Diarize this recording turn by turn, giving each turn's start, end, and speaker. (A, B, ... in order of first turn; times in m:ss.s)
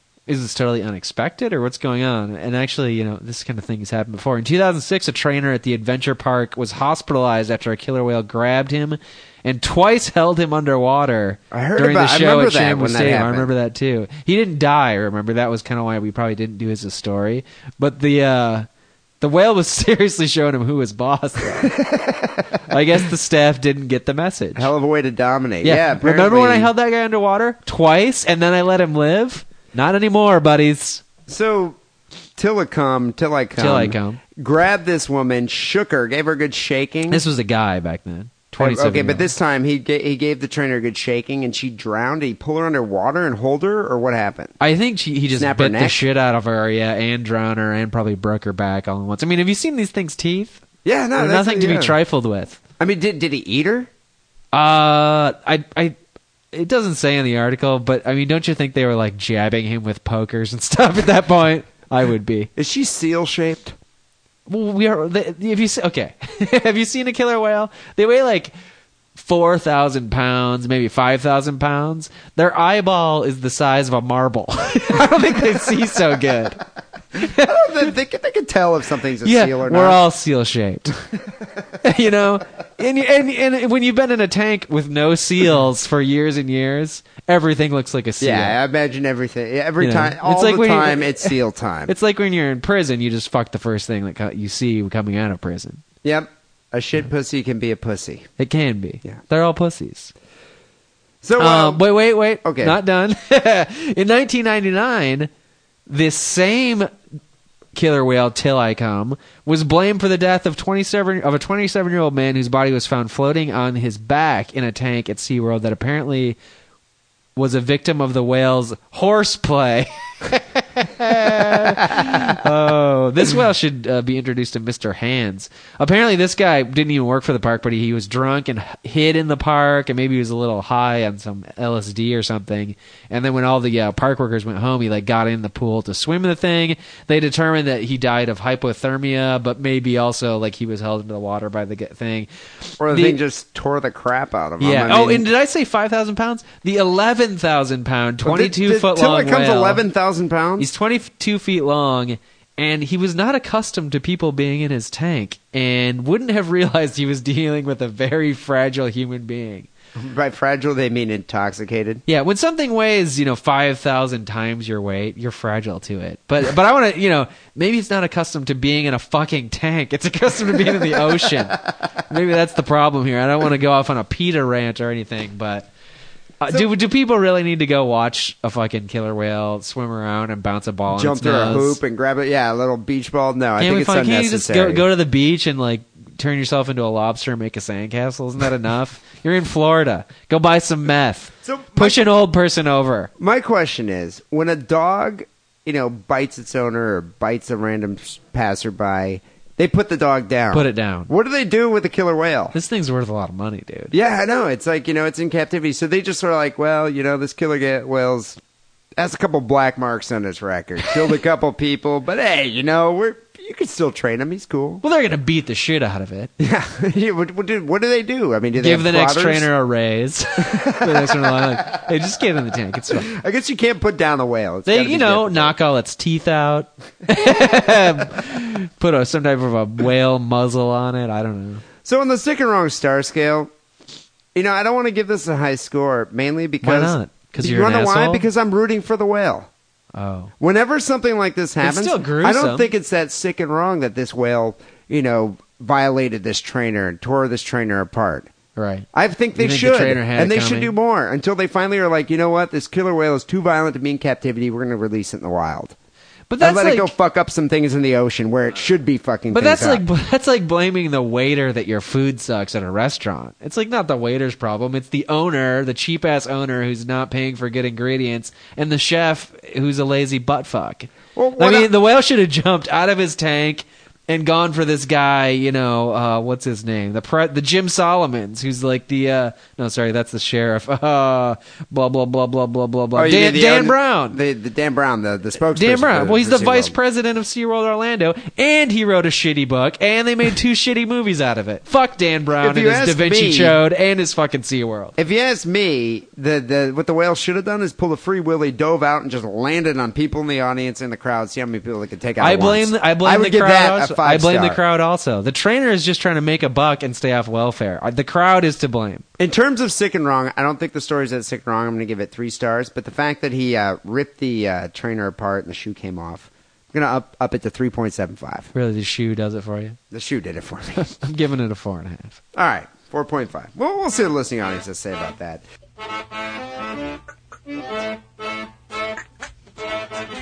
0:00.3-0:18.7 A
0:11.5-0:13.5 B
0:19.2-0:21.7 A
0:21.6-0:22.4 B
0:22.7-0:24.7 A
0:24.6-0:26.7 B
0:25.6-0:31.0 A
0:31.3-0:31.8 B
0:32.4-0:37.2 B
0:33.6-0:34.2 A
0:37.1-0:39.3 A
0:38.6-0:44.6 B
0:44.6-0:50.6 A
0:45.3-0:46.0 B
0:50.8-0:52.0 B
0:51.2-0:52.6 A
0:52.8-0:53.9 B
0:54.5-0:56.0 A
0:56.5-1:02.5 A
1:02.6-1:03.8 B
1:04.5-1:08.5 A
1:09.1-1:16.6 A
1:17.2-1:17.6 A
1:17.4-1:20.0 B
1:19.2-1:21.0 A
1:21.8-1:28.6 A
1:28.2-1:31.9 B
1:29.8-1:31.4 A
1:31.9-1:35.8 A
1:36.0-1:38.3 B
1:38.4-1:40.1 A
1:41.2-1:41.8 B
1:41.4-1:45.3 A
1:42.4-1:42.8 B
1:45.9-1:46.9 A
1:47.7-1:56.4 A
1:57.4-2:23.2 A
2:22.8-2:25.3 B
2:24.6-2:29.8 A
2:28.2-2:30.7 B
2:30.6-2:39.7 A
2:40.0-2:42.0 B
2:42.1-2:55.7 A
2:56.4-3:01.8 A
3:00.9-3:04.8 B
3:03.6-3:13.1 A
3:11.4-3:12.1 B
3:13.2-3:22.5 B
3:20.5-3:21.1 A
3:22.5-3:23.9 A
3:23.9-3:28.4 B
3:29.0-3:34.8 B
3:34.8-3:36.3 A
3:36.4-3:39.5 B
3:38.6-3:43.1 A
3:40.4-3:41.8 B
3:42.9-3:45.5 B
3:44.6-3:51.6 A
3:51.8-3:53.5 B
3:54.3-3:59.5 B
3:56.6-3:58.2 A
3:59.9-4:00.3 A
4:00.4-4:08.3 B
4:01.6-4:02.7 A
4:08.6-4:10.7 A
4:08.9-4:15.7 B
4:16.3-4:16.9 A
4:16.4-4:19.8 B
4:19.3-4:44.2 A
4:31.1-4:31.7 B
4:42.9-4:46.8 B
4:45.5-4:54.9 A
4:52.4-4:53.6 B
4:55.0-5:04.6 B
5:02.2-5:09.0 A
5:09.2-5:18.5 B
5:18.5-5:19.8 A
5:19.9-5:20.8 B
5:20.8-5:22.2 A
5:22.3-5:25.4 B